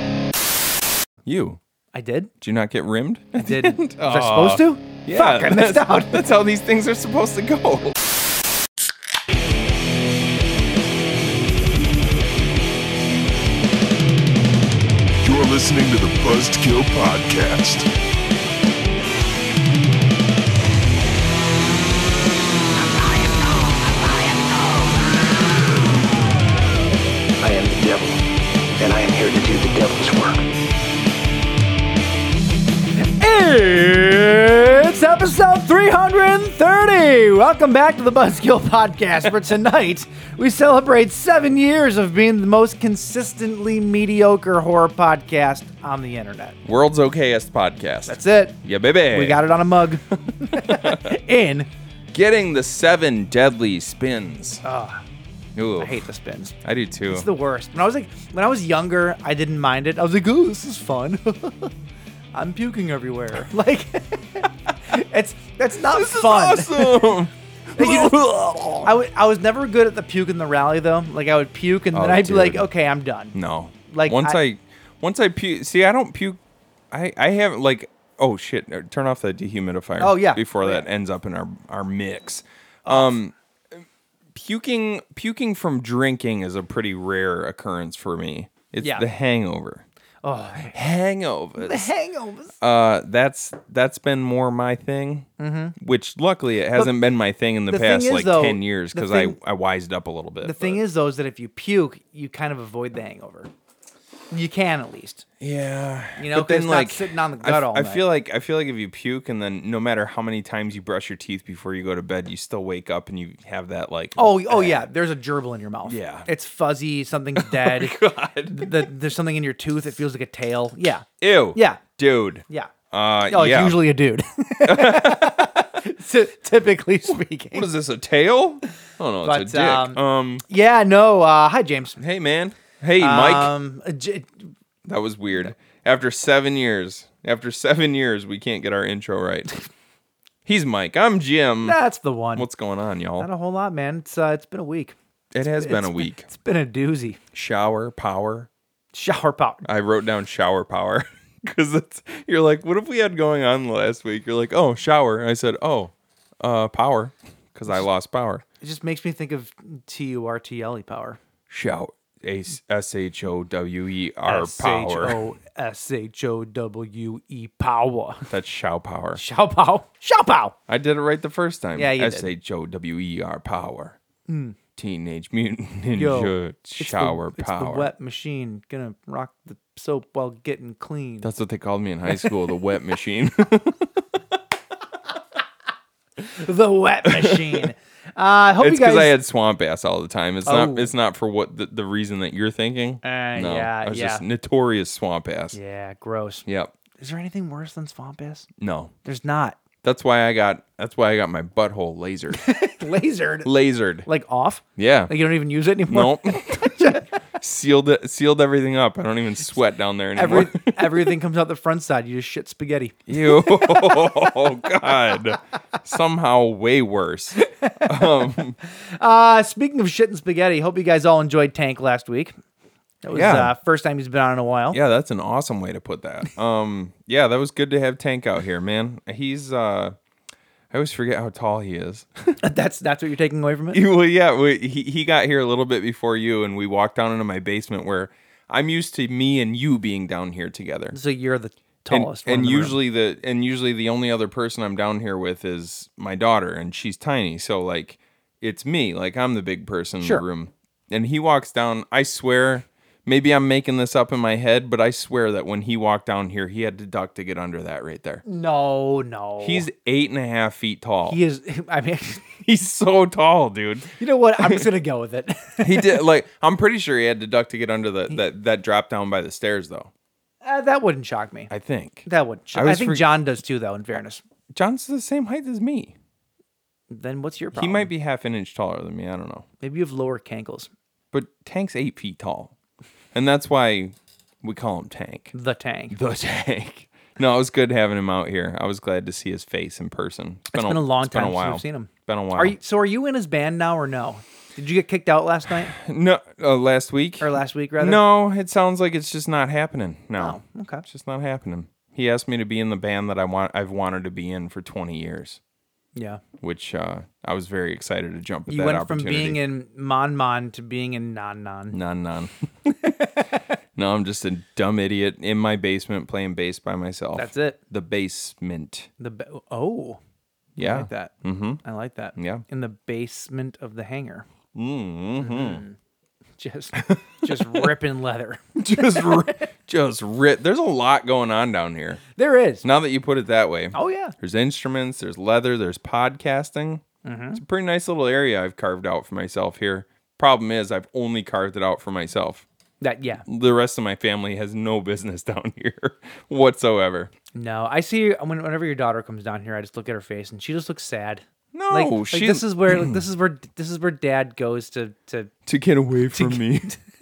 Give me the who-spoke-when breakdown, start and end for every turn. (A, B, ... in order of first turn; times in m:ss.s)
0:01.2-0:01.6 A
0:01.9-0:02.3 B
0:02.4-0:08.0 A
0:03.4-0:06.2 B
0:15.2-0:17.9 C
0:27.4-0:28.2 D
0:28.8-0:30.4 D
0:33.0-0:46.6 B
0:46.6-0:49.4 A
0:48.1-0:48.6 B
0:49.1-0:51.7 B
0:50.5-0:51.1 A
0:52.1-0:54.6 A
0:54.6-0:55.0 B
0:55.6-0:56.0 A
0:55.8-0:56.6 B
0:56.6-0:57.3 A
0:57.1-1:01.7 B
1:02.3-1:07.2 B
1:05.8-1:08.9 A
1:07.8-1:08.2 B
1:08.8-1:13.4 B
1:11.9-1:12.7 A
1:13.3-1:16.4 A
1:13.9-1:14.4 B
1:16.9-1:23.8 A
1:20.0-1:20.9 B
1:22.9-1:23.1 B
1:24.3-1:29.8 A
1:30.2-1:30.8 B
1:30.7-1:31.9 A
1:31.6-1:32.5 B
1:32.6-1:40.8 A
1:35.4-1:35.8 B
1:37.7-1:39.4 B
1:40.4-1:43.5 B
1:44.3-1:45.2 B
1:45.4-1:54.9 A
1:46.2-1:48.0 B
1:54.2-2:01.8 B
1:55.8-1:56.3 A
1:57.4-1:58.9 A
2:01.2-2:03.8 A
2:03.3-2:07.7 B
2:04.6-2:05.7 A
2:07.1-2:10.4 A
2:09.2-2:12.0 B
2:12.0-2:13.5 A
2:13.0-2:14.3 B
2:14.8-2:19.5 A
2:20.5-2:21.8 A
2:21.6-2:22.5 B
2:22.4-2:23.3 A
2:23.2-2:25.0 B
2:25.3-2:26.3 A
2:25.6-2:27.2 B
2:27.3-2:28.5 A
2:28.9-2:29.6 B
2:29.6-2:38.4 A
2:38.6-2:41.2 B
2:41.5-2:45.2 A
2:44.2-2:48.3 B
2:48.3-2:49.2 A
2:49.2-2:50.6 B
2:50.7-2:54.0 A
2:51.7-2:52.3 B
2:54.3-2:54.6 B
2:54.8-2:57.9 A
2:55.9-3:01.3 B
3:01.2-3:04.0 A
3:06.2-3:09.2 B
3:07.0-3:07.7 A
3:08.6-3:15.6 A
3:10.4-3:10.9 B
3:13.0-3:14.2 B
3:15.5-3:16.4 B
3:16.5-3:16.7 A
3:17.0-3:18.5 B
3:18.6-3:18.9 A
3:19.0-3:19.6 B
3:19.8-3:22.5 A
3:22.3-3:23.5 B
3:23.4-3:24.1 A
3:24.0-3:27.1 B
3:24.8-3:25.1 A
3:25.9-3:31.2 A
3:30.2-3:34.3 B
3:33.1-3:38.6 A
3:37.4-3:42.4 B
3:43.0-3:44.8 B
3:43.1-3:43.5 A
3:44.7-3:50.0 A
3:50.7-3:52.4 A
3:52.4-3:53.8 B
3:53.7-4:01.0 A
4:00.9-4:02.8 B
4:01.9-4:18.2 A
4:18.2-4:19.7 B
4:19.4-4:21.2 A
4:21.1-4:22.3 B
4:22.4-4:24.7 A
4:24.0-4:26.0 B
4:25.6-4:29.9 A
4:30.4-4:31.5 B
4:31.5-4:33.1 A
4:32.1-4:34.2 B
4:34.5-4:36.0 A
4:36.9-4:37.9 B
4:37.5-4:39.5 A
4:39.6-4:40.7 B
4:41.1-4:42.5 A
4:43.1-4:45.3 A
4:45.3-4:46.0 B
4:45.9-4:52.6 A
4:50.5-4:55.8 B
4:55.7-5:05.4 A
4:57.2-4:58.0 B
5:00.2-5:00.8 B
5:06.0-5:06.2 B
5:06.4-5:09.4 A
5:08.5-5:11.8 B
5:11.7-5:12.9 A
5:12.9-5:13.4 B
5:13.8-5:18.9 A
5:17.2-5:17.6 B
5:19.0-5:20.0 B
5:20.6-5:21.6 A
5:20.6-5:21.1 B
5:21.6-5:24.3 B
5:22.2-5:22.4 A
5:24.6-5:25.6 A
5:25.2-5:25.8 B
5:26.4-5:29.4 B
5:26.9-5:27.7 A
5:28.6-5:32.0 A
5:32.2-5:32.6 B
5:32.6-5:36.8 A
5:33.7-5:34.2 B
5:37.0-5:37.4 B
5:37.3-5:42.4 A
5:42.8-5:43.2 B
5:43.3-5:47.1 A
5:47.4-5:55.3 B
5:51.5-5:53.0 A
5:55.4-5:56.7 A
5:56.1-5:56.8 B